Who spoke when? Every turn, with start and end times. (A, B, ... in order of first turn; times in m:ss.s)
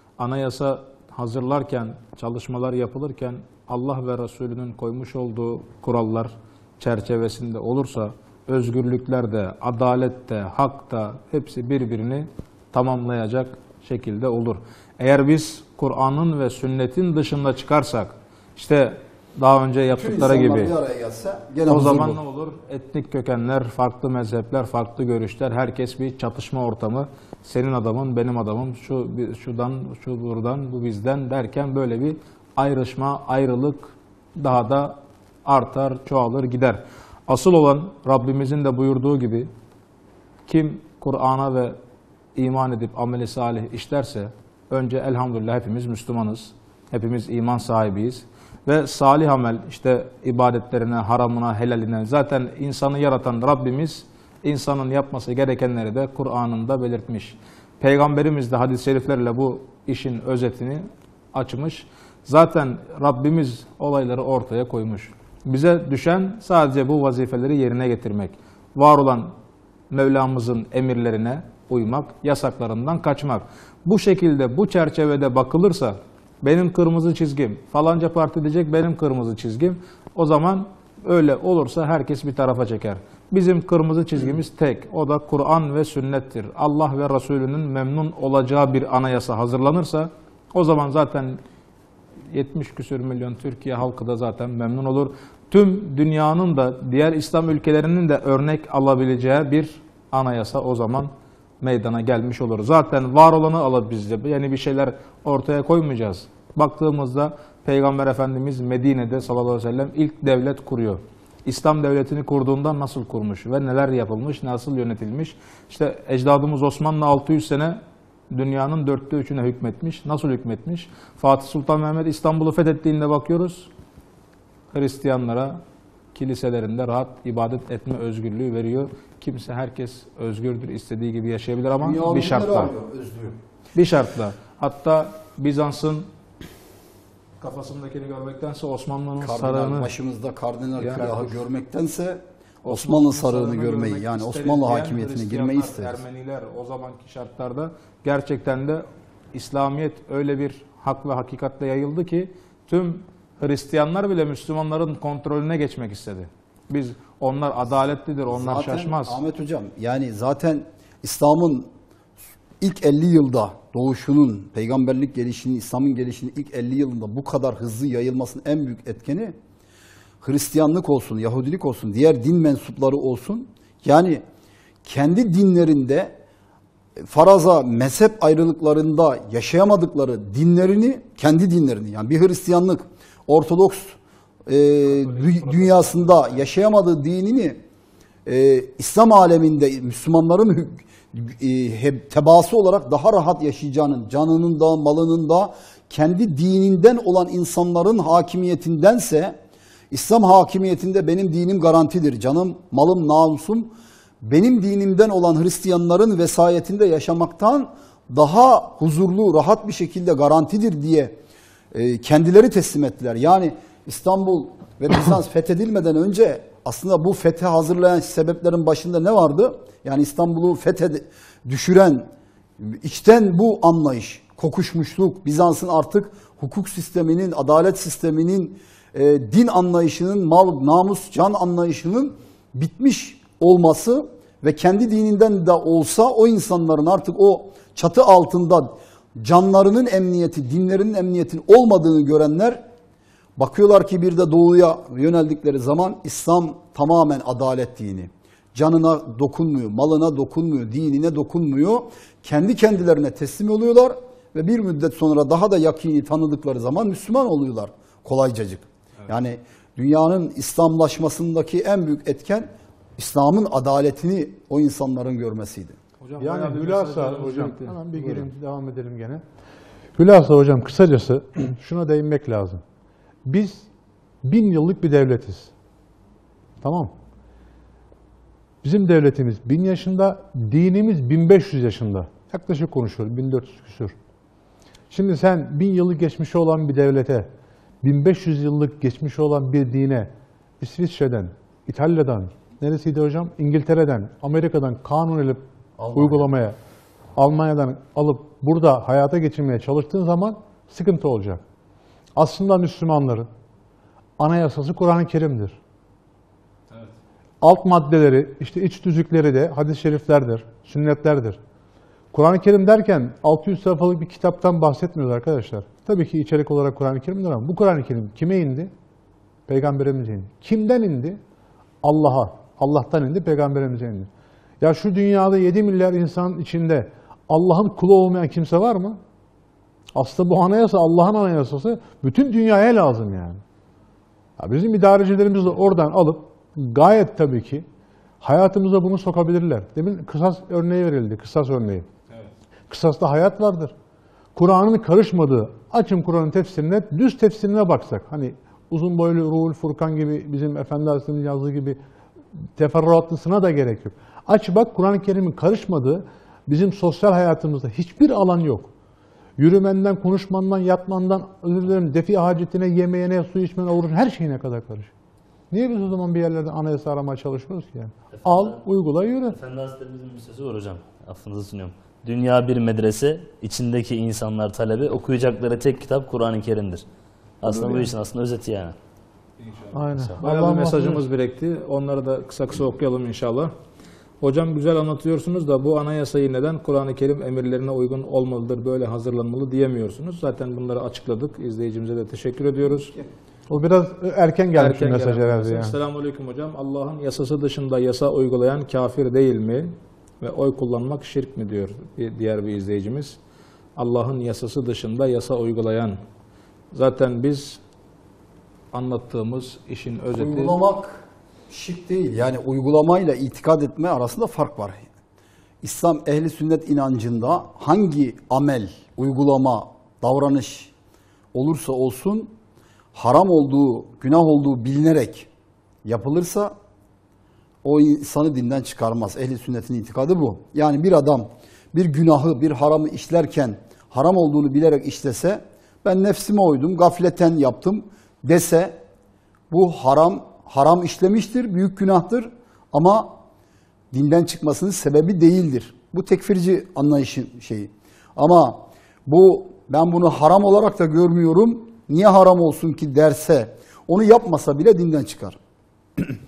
0:00.2-0:20.7 A
0:20.0-0:22.2 B
0:21.6-0:39.5 A
0:40.5-0:41.8 A
0:42.4-1:09.3 A
1:09.9-1:31.4 A
1:32.3-1:41.1 A
1:41.6-1:57.8 A
1:58.3-2:03.7 A
2:04.7-2:05.6 A
2:06.1-2:12.7 A
2:11.8-2:13.4 B
2:13.7-2:16.1 A
2:17.4-2:19.9 A
2:19.2-2:26.0 B
2:20.8-2:21.3 A
2:22.6-2:39.2 A
2:38.3-2:41.7 B
2:42.6-2:49.3 B
2:50.2-2:54.2 B
2:54.8-2:56.1 B
2:57.0-3:07.6 B
3:04.8-3:06.4 A
3:08.2-3:19.4 B
3:19.9-3:31.2 B
3:31.7-3:42.1 B
3:42.6-4:02.6 B
4:03.4-4:25.8 B
4:26.0-4:28.3 A
4:26.2-4:29.2 C
4:30.0-4:32.6 C
4:33.2-4:33.7 C
4:34.2-4:35.5 C
4:36.6-4:36.9 C
4:38.6-4:43.9 C
4:44.9-4:47.3 C
4:47.8-4:56.6 C
4:55.8-4:56.3 B
4:57.2-5:01.4 C
5:02.2-5:03.3 C
5:04.2-5:05.6 C
5:07.4-5:11.4 C
5:12.1-5:18.7 C
5:19.5-5:21.2 C
5:21.8-5:24.1 C
5:24.6-5:29.0 C
5:29.9-5:33.4 C
5:34.4-5:37.6 C
5:38.2-5:41.8 C
5:42.7-5:43.7 C
5:44.4-5:51.8 C
5:52.6-5:58.7 C
5:59.4-6:04.9 C
6:05.5-6:09.4 C
6:08.1-6:08.6 D
6:09.3-6:16.8 D
6:17.4-6:18.7 D
6:17.4-6:17.9 C
6:19.4-6:23.5 A
6:19.7-6:21.0 C
6:24.2-6:33.0 A
6:33.5-6:35.7 C
6:34.6-6:43.2 A
6:43.8-6:46.0 A
6:46.7-6:47.6 A
6:48.7-6:50.5 A
6:50.1-6:54.8 B
6:55.6-7:00.7 B
7:01.3-7:02.3 B
7:02.9-7:05.3 B
7:05.8-7:06.5 B
7:07.6-7:18.8 B
7:19.5-7:23.1 B
7:23.9-7:35.4 B